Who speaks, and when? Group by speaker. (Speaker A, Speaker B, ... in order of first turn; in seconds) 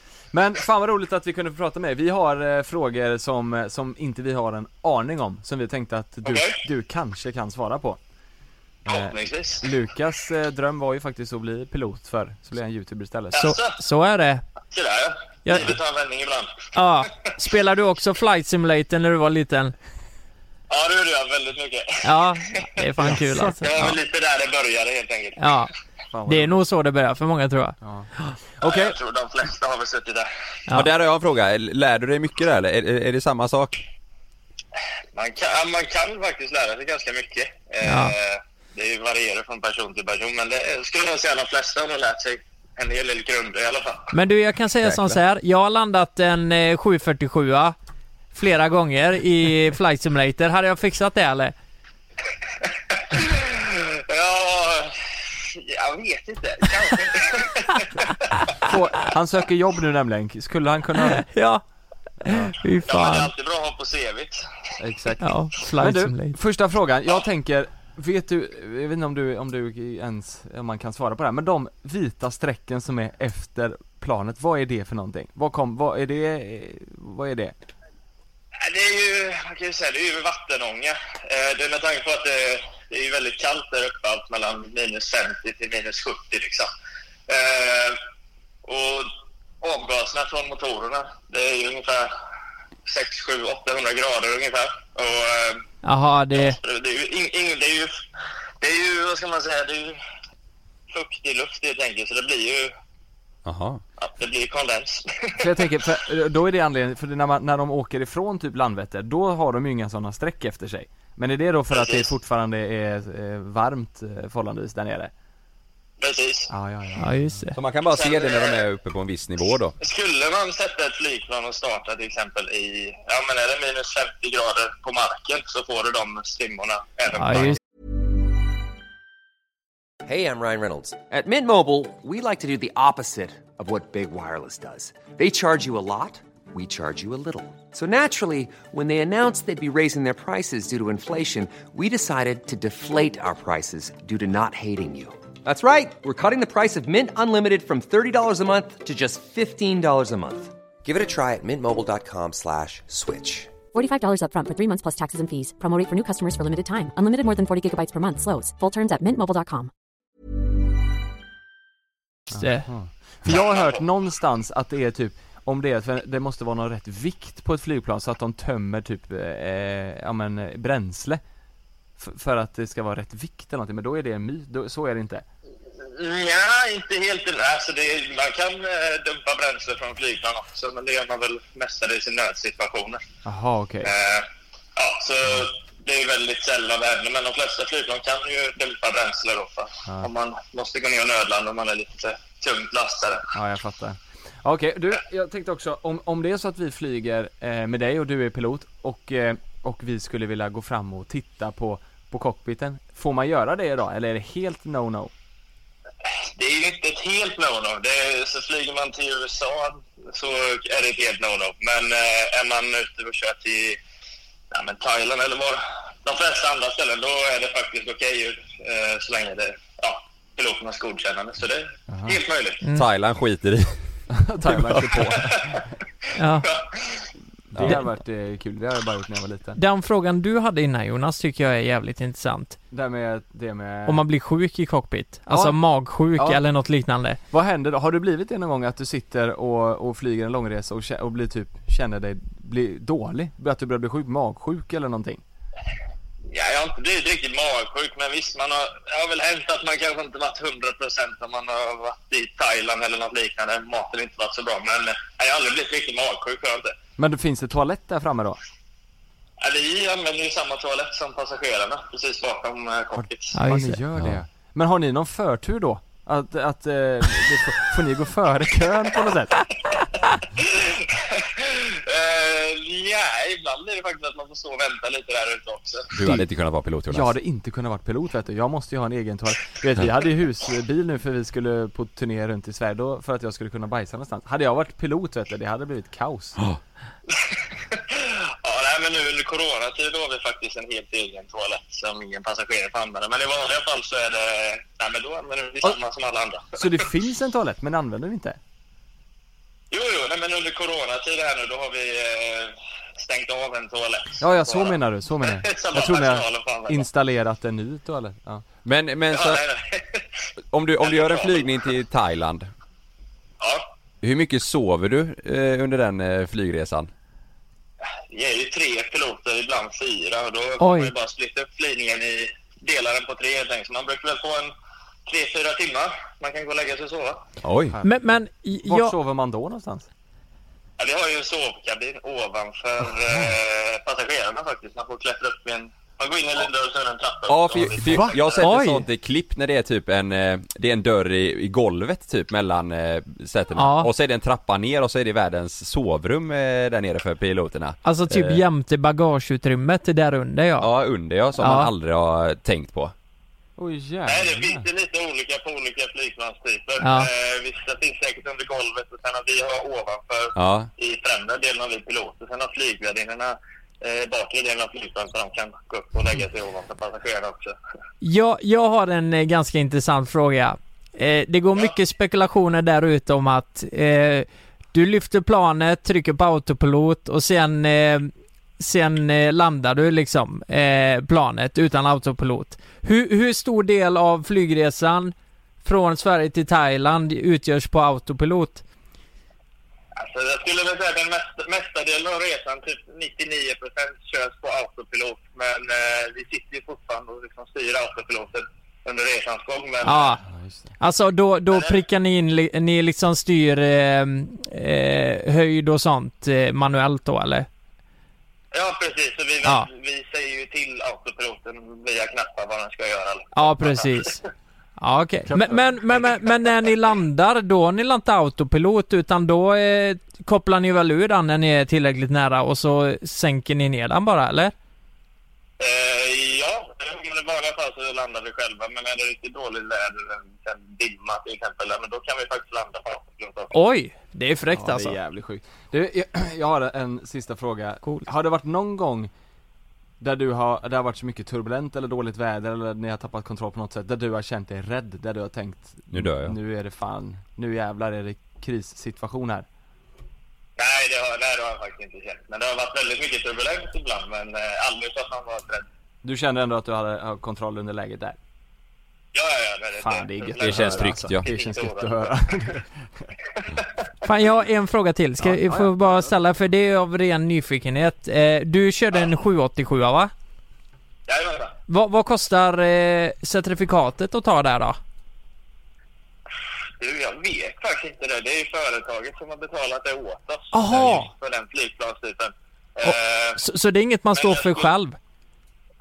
Speaker A: 0.3-8.0, 8.9-13.4, 23.0-23.6, 26.1-26.6, 27.8-28.1, 28.6-29.0, 58.6-61.3, 62.3-62.5, 64.8-77.5, 105.4-115.1, 116.5-117.4, 162.3-171.2, 172.0-175.2, 183.2-183.9, 193.3-205.1, 221.9-222.2, 224.1-225.5, 227.5-229.6, 232.7-234.0, 235.3-235.6, 236.1-236.4, 237.3-245.2, 257.0-258.4, 263.0-269.4, 276.9-286.4, 296.5-298.4, 304.2-308.4, 327.7-328.1, 328.6-329.9, 353.6-354.7, 400.3-400.7, 415.3-415.8, 434.5-439.1, 440.0-449.5, 456.0-458.2, 459.8-462.7, 465.2-466.1
Speaker B: 6.2-6.6, 8.9-9.7, 13.3-13.8, 14.7-16.7, 20.7-22.2, 23.1-25.5, 28.6-30.3, 35.1-44.1, 52.9-58.5, 62.9-64.5, 78.6-86.7, 87.3-88.0, 88.7-89.1, 89.6-92.1, 92.9-95.6, 96.3-97.9, 98.6-100.0, 100.9-102.7, 104.0-105.5, 111.7-112.1, 116.0-116.5, 117.9-118.7, 119.8-127.6, 163.3-163.7, 175.8-183.0, 183.8-193.2, 206.3-213.8, 214.5-222.6, 225.1-225.7, 226.4-227.1, 246.3-256.8, 259.4-263.4, 270.4-275.9, 287.1-296.7, 299.7-306.9, 309.1-310.0, 310.8-311.5, 313.4-313.7, 318.1-324.5, 325.1-327.2, 330.8-338.5, 354.1-367.6, 390.0-400.1, 408.5-414.2, 425.6-433.5, 450.6-455.7, 459.1-462.1, 463.4-463.7, 471.1-471.6, 476.8-483.4, 484.1-484.7
Speaker C: 13.4-14.4, 15.4-15.8, 16.7-19.7, 22.0-24.0, 25.4-25.7, 26.3-28.4, 37.8-38.1, 44.1-47.8, 48.3-51.5, 61.2-61.6, 62.2-63.3, 65.2-66.4, 95.8-96.6, 117.0-117.6, 127.2-127.6, 162.3-162.7, 226.2-226.5, 229.6-232.6, 233.9-237.2, 263.3-263.8, 320.6-320.9, 327.8-329.0, 338.4-338.9, 343.6-343.9, 347.8-350.7, 351.4-351.7, 356.8-357.1, 368.0-388.6, 399.9-400.2, 400.8-407.5, 413.4-414.2, 414.8-424.5, 433.5-435.0, 464.0-470.1, 471.7-474.8, 480.5-481.1, 482.8-485.0
Speaker D: 30.7-33.8, 44.8-45.2, 103.5-103.8, 117.5-119.8, 222.7-223.8, 224.5-225.0, 275.9-277.1, 308.6-309.4, 310.5-312.5, 314.0-316.9, 327.4-327.8, 337.3-348.4, 350.6-352.9, 360.4-360.7, 445.9-446.4, 460.4-461.3
Speaker E: 130.1-153.5
Speaker F: 153.7-159.7